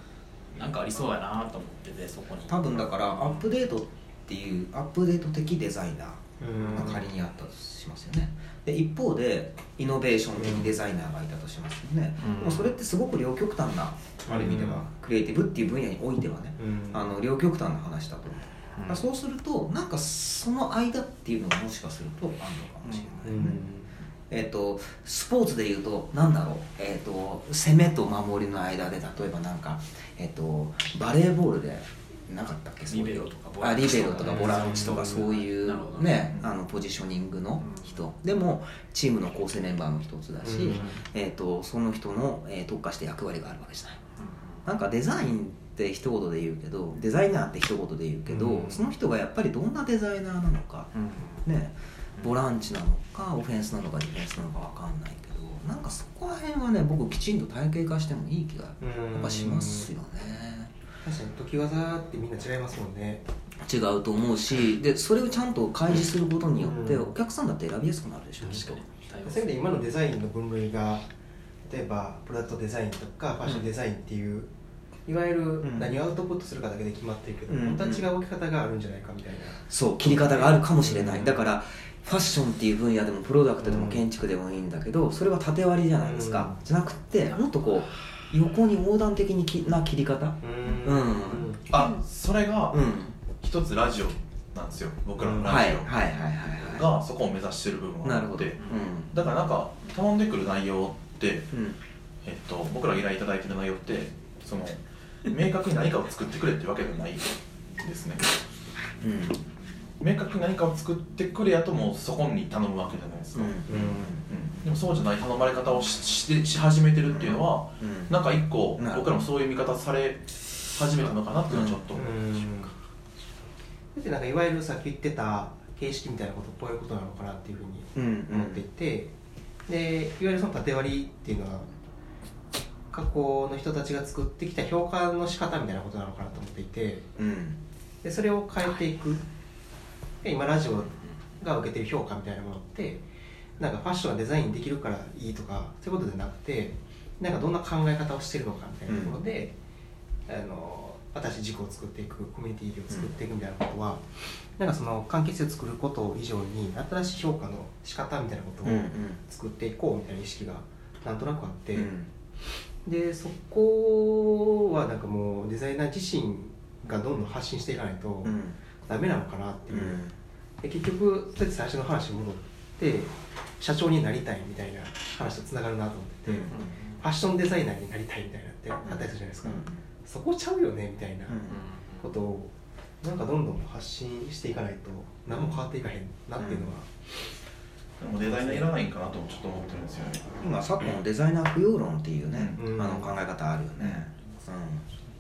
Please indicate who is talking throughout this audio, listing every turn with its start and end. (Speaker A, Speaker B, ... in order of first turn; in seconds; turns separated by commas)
Speaker A: 0.5-3.5, Speaker B: 2.5-23.6, Speaker C: 6.4-7.0, Speaker C: 10.4-10.8, Speaker A: 12.2-12.7, Speaker C: 14.3-14.8, Speaker C: 16.6-17.0, Speaker A: 18.8-19.1, Speaker A: 22.9-23.1, Speaker C: 23.2-23.9, Speaker B: 24.3-44.0, Speaker A: 32.9-36.3, Speaker C: 34.2-35.2, Speaker A: 37.6-38.1, Speaker C: 40.4-41.0, Speaker A: 44.2-44.7, Speaker B: 44.6-60.7, Speaker C: 48.3-48.8, Speaker A: 50.9-51.5, Speaker C: 58.8-59.9, Speaker C: 61.0-63.2, Speaker B: 63.6-68.8, Speaker C: 66.6-67.1, Speaker A: 68.4-69.5, Speaker C: 69.2-71.1, Speaker C: 71.7-74.5, Speaker C: 75.1-81.4, Speaker B: 75.6-76.0, Speaker B: 77.5-78.1, Speaker B: 79.7-91.9, Speaker C: 83.6-84.0, Speaker C: 86.0-86.6, Speaker C: 90.4-91.6, Speaker D: 91.7-101.5, Speaker B: 92.7-93.2, Speaker C: 95.2-95.5, Speaker B: 95.4-96.9, Speaker B: 98.0-99.1, Speaker B: 101.5-101.8, Speaker D: 102.2-108.3, Speaker B: 109.0-109.4, Speaker D: 110.0-113.6, Speaker B: 113.3-114.3, Speaker C: 113.7-114.2, Speaker D: 114.3-122.2, Speaker B: 117.0-118.2, Speaker B: 118.8-119.1, Speaker B: 121.5-121.8, Speaker C: 121.9-122.7, Speaker C: 124.0-129.1, Speaker B: 128.0-128.6, Speaker C: 129.7-131.7, Speaker C: 132.9-137.1, Speaker B: 137.2-137.6, Speaker C: 138.0-139.2, Speaker C: 140.2-143.0, Speaker C: 143.6-149.5, Speaker B: 148.9-149.2, Speaker C: 150.3-161.9, Speaker B: 158.6-159.2, Speaker B: 161.7-162.1, Speaker C: 162.8-170.0, Speaker B: 168.2-168.6, Speaker B: 169.7-170.1, Speaker C: 170.6-181.4, Speaker B: 176.3-176.7, Speaker A: 176.5-177.0, Speaker B: 178.8-179.8, Speaker B: 181.3-181.6, Speaker A: 181.4-182.2, Speaker C: 182.0-187.1, Speaker B: 186.4-186.7, Speaker D: 188.0-191.0, Speaker C: 188.3-188.6, Speaker B: 190.4-194.9, Speaker D: 192.3-192.6, Speaker C: 192.6-193.2, Speaker D: 193.8-194.0